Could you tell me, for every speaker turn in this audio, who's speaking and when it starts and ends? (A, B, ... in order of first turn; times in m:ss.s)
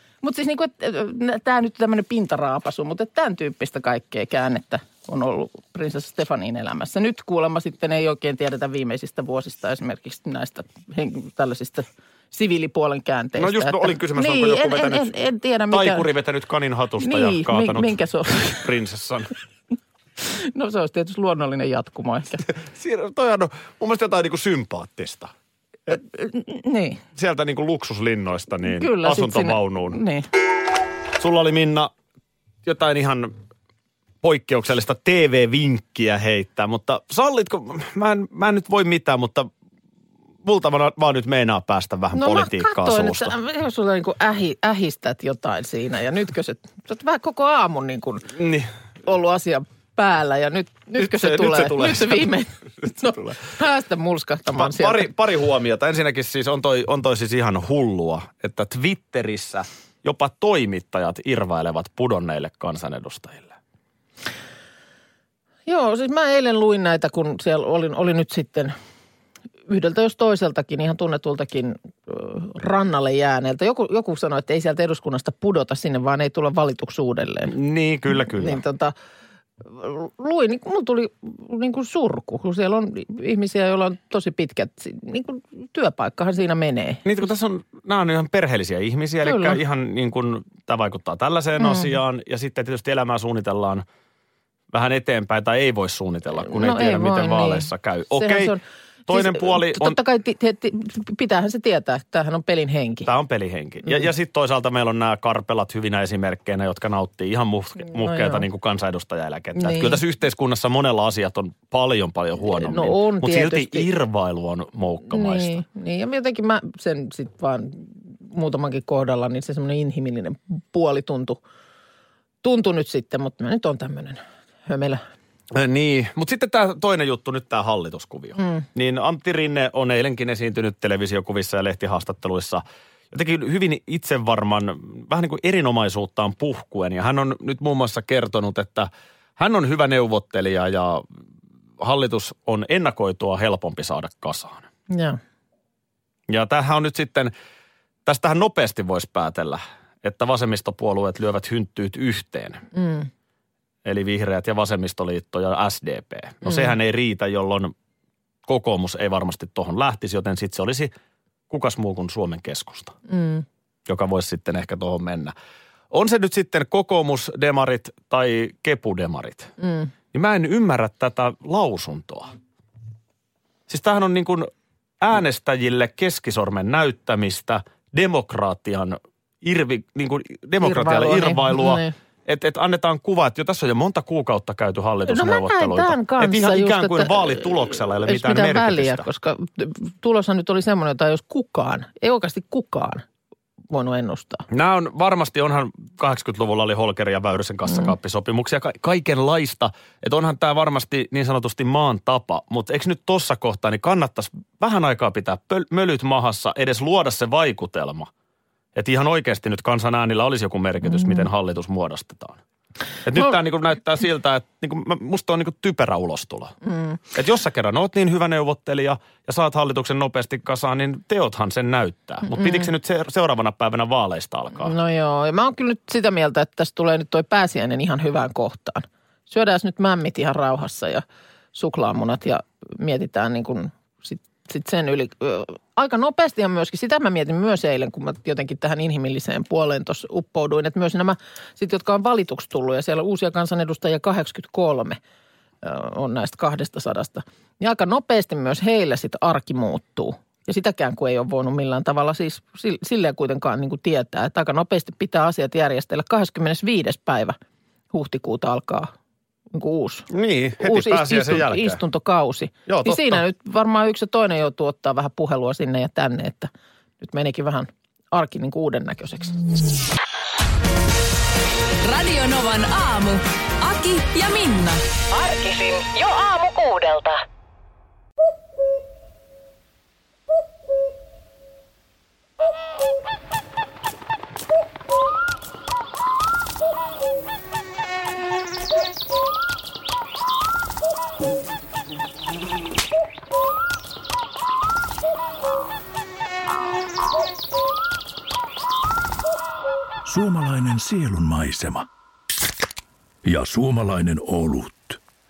0:00.2-0:16.1 A
0:13.4-0:15.1 B
0:15.7-0:19.3 B
0:17.0-0:18.7 A
0:20.2-0:22.4 A
0:22.4-0:25.3 B
0:25.9-0:27.0 A
0:27.1-0:30.0 B
0:28.7-0:30.3 A
0:31.2-0:31.9 B
0:32.6-0:33.4 B
0:34.2-0:39.5 B
0:40.4-0:43.3 B
0:42.1-0:48.3 A
0:48.3-0:48.7 B
0:49.0-0:55.1 A
0:50.9-0:52.2 B
0:54.5-1:03.6 B
1:05.6-1:08.7 A
1:09.7-1:17.5 A
1:17.5-1:18.6 B
1:18.3-1:18.9 A
1:19.6-1:27.0 A
1:27.0-1:33.8 B
1:29.2-1:29.6 A
1:31.6-1:31.9 A
1:34.7-1:38.5 B
1:36.4-1:43.1 A
1:39.1-1:40.0 B
1:43.0-1:55.6 B
1:47.9-1:48.4 A
1:49.6-1:50.0 A
1:52.4-1:53.9 A
1:55.1-2:01.4 A
2:02.4-2:05.0 A
2:05.5-2:21.0 B
2:08.4-2:08.6 A
2:21.8-2:24.7 B
2:24.9-2:25.2 A
2:26.3-2:27.3 B
2:28.0-2:32.6 B
2:32.7-2:33.1 A
2:33.8-2:37.7 B
2:36.4-2:36.7 A
2:38.4-2:40.9 B
2:41.5-2:43.0 B
2:43.1-2:43.4 A
2:43.9-2:45.3 B
2:45.9-2:49.5 B
2:49.6-2:49.9 A
2:50.1-2:52.3 B
2:53.7-3:09.0 B
3:00.6-3:01.9 A
3:05.0-3:13.0 A
3:13.7-3:14.4 A
3:14.5-3:28.1 B
3:28.7-3:32.4 B
3:33.0-3:36.5 B
3:36.6-3:37.0 A
3:37.1-3:44.7 B
3:42.3-3:42.7 A
3:44.6-4:05.0 A
4:05.6-4:17.4 A
4:17.9-4:18.9 A
4:19.5-4:20.1 A
4:20.1-4:21.8 B
4:20.6-4:29.4 A
4:22.7-4:23.2 B
4:31.8-4:34.8 C
4:35.2-4:37.1 D
5:00.0-5:01.9 E
5:03.2-5:05.0 E